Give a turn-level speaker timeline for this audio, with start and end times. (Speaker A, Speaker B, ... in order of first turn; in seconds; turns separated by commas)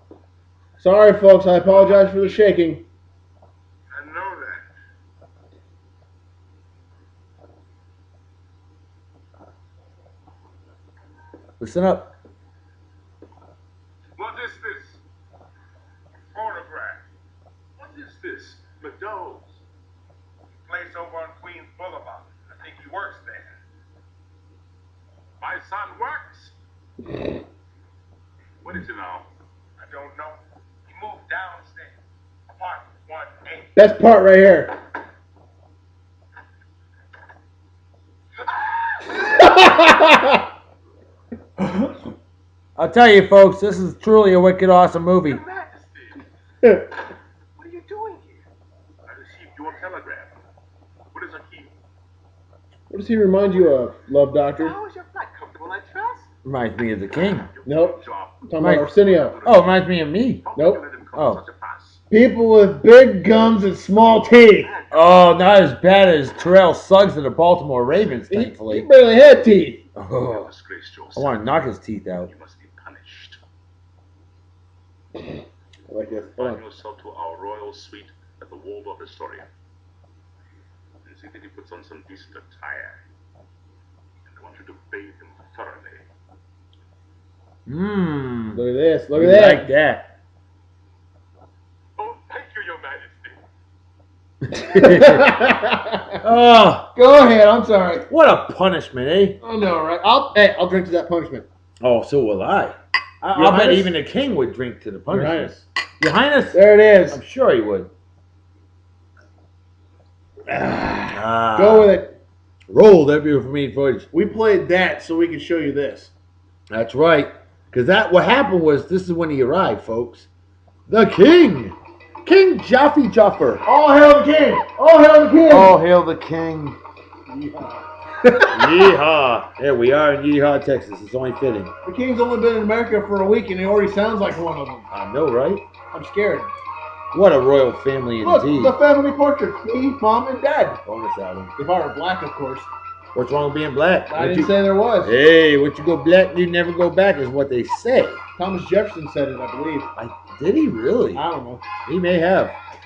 Speaker A: 0.8-2.8, Speaker B: 1.6-2.4, Speaker B: 3.9-4.7, Speaker C: 11.6-12.1, Speaker B: 14.2-15.0, Speaker B: 16.3-17.1, Speaker B: 17.8-19.6, Speaker B: 20.6-23.6, Speaker B: 25.4-26.5, Speaker B: 28.6-33.7, Speaker A: 33.8-34.7, Speaker B: 38.4-39.2, Speaker C: 39.4-40.3, Speaker A: 39.4-40.2, Speaker A: 41.6-41.9, Speaker C: 42.8-45.4, Speaker B: 45.2-46.2, Speaker B: 47.6-48.4, Speaker B: 49.1-50.4, Speaker B: 51.1-51.7, Speaker A: 52.9-54.7, Speaker B: 54.6-56.3, Speaker C: 56.4-57.5, Speaker B: 57.2-62.0, Speaker A: 57.6-59.4, Speaker C: 58.6-58.9, Speaker C: 59.4-60.4, Speaker A: 60.5-60.8, Speaker C: 61.1-61.4, Speaker A: 62.1-64.7, Speaker B: 63.9-65.3, Speaker C: 64.9-68.8, Speaker A: 68.3-69.8, Speaker C: 70.0-70.5, Speaker B: 70.2-71.5, Speaker C: 71.1-72.3, Speaker B: 72.2-73.4, Speaker A: 75.9-76.6, Speaker B: 76.3-79.5, Speaker B: 81.0-83.0, Speaker B: 84.2-86.0, Speaker C: 87.7-88.6, Speaker A: 88.5-89.7, Speaker C: 89.1-90.1, Speaker B: 92.0-93.4, Speaker C: 94.5-95.3, Speaker A: 94.6-96.2, Speaker C: 96.2-96.9, Speaker A: 96.9-98.1, Speaker C: 98.1-99.4, Speaker A: 99.4-101.5, Speaker C: 101.8-107.9, Speaker A: 103.3-103.9, Speaker A: 105.1-105.6, Speaker A: 106.5-107.2, Speaker A: 110.5-112.2, Speaker C: 111.1-111.9, Speaker C: 112.7-114.1, Speaker A: 114.1-116.1, Speaker C: 116.7-120.3, Speaker C: 120.9-123.6, Speaker A: 123.6-125.8, Speaker C: 125.5-126.8, Speaker A: 127.3-128.9, Speaker C: 128.5-131.7, Speaker A: 131.8-134.8, Speaker C: 134.9-135.6, Speaker A: 135.9-136.5, Speaker C: 137.1-138.7, Speaker A: 138.2-140.8, Speaker C: 140.8-141.5, Speaker A: 141.6-142.7, Speaker C: 143.1-148.2, Speaker A: 144.1-145.1, Speaker A: 148.4-149.9, Speaker C: 150.0-151.2, Speaker A: 151.1-151.6, Speaker C: 151.8-152.5